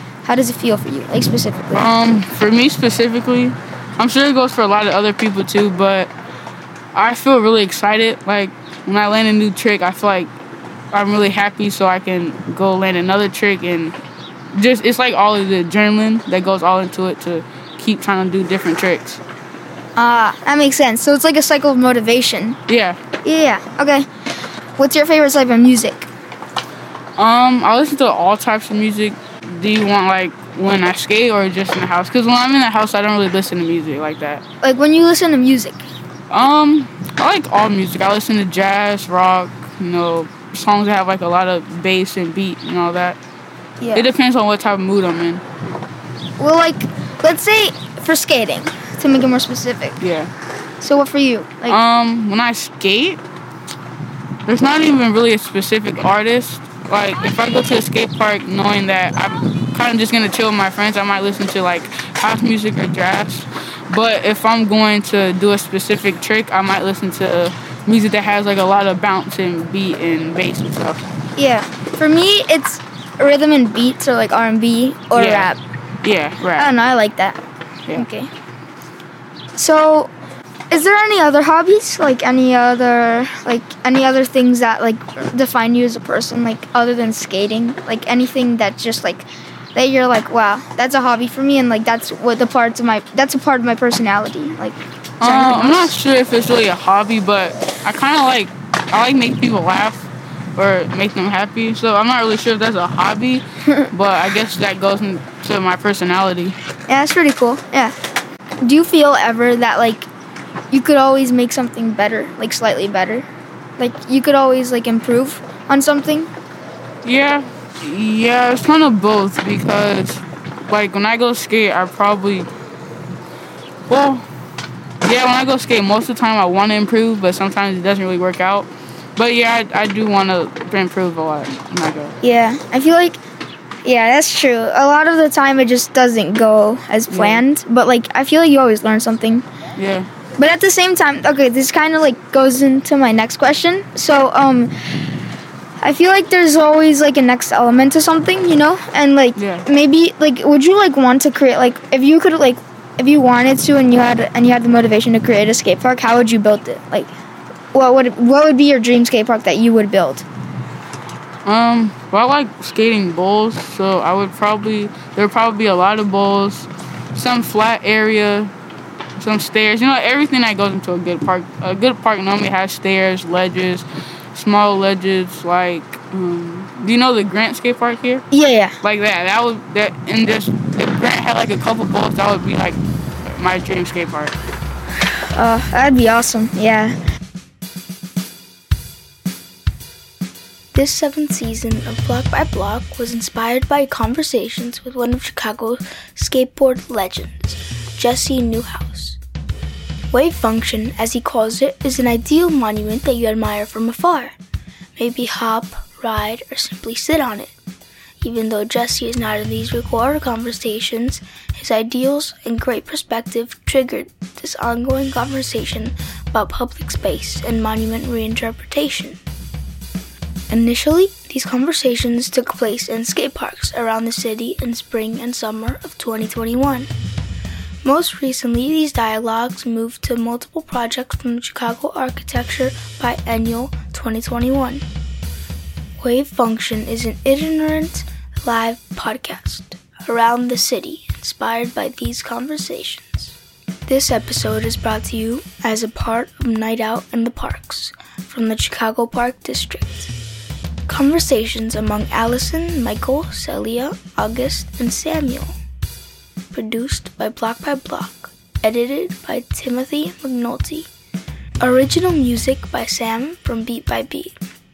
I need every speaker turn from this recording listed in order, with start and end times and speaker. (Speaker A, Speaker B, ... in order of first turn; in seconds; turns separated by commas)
Speaker A: 0.2-1.9, Speaker B: 1.7-6.1, Speaker B: 6.9-10.3, Speaker B: 10.9-14.0, Speaker B: 14.5-19.2, Speaker A: 20.0-22.6, Speaker B: 22.7-23.0, Speaker A: 23.2-24.1, Speaker A: 24.8-26.1, Speaker B: 27.2-34.4, Speaker A: 34.6-35.9, Speaker B: 36.3-43.2, Speaker A: 43.8-44.1, Speaker B: 44.0-45.4, Speaker A: 46.4-50.0, Speaker B: 50.0-50.3, Speaker A: 50.8-51.8, Speaker B: 51.7-53.2, Speaker B: 54.5-71.0, Speaker A: 71.4-75.6, Speaker B: 75.1-75.5, Speaker B: 76.0-76.7, Speaker A: 76.5-77.4, Speaker A: 77.9-78.3, Speaker A: 79.6-80.1, Speaker A: 80.7-96.0, Speaker B: 95.2-106.6, Speaker A: 106.9-108.0, Speaker A: 108.6-110.1, Speaker A: 110.7-113.3, Speaker A: 113.8-116.3, Speaker B: 117.0-122.5, Speaker B: 123.9-124.3, Speaker B: 125.0-132.1, Speaker A: 132.2-133.2, Speaker A: 133.8-139.5, Speaker B: 137.1-137.4, Speaker B: 139.8-140.1, Speaker A: 140.4-144.7, Speaker A: 145.8-157.1, Speaker B: 149.4-149.7, Speaker A: 157.7-160.3, Speaker B: 161.4-168.5, Speaker B: 169.2-178.2, Speaker A: 178.3-178.7, Speaker B: 178.8-182.8, Speaker B: 183.3-184.3, Speaker A: 185.3-186.9, Speaker C: 190.7-199.2, Speaker C: 200.1-204.4, Speaker C: 205.0-207.5, Speaker C: 208.2-219.2, Speaker C: 220.5-226.9, Speaker C: 227.8-234.8, Speaker C: 236.0-250.1, Speaker C: 250.9-255.6, Speaker C: 256.5-260.9, Speaker C: 261.6-264.4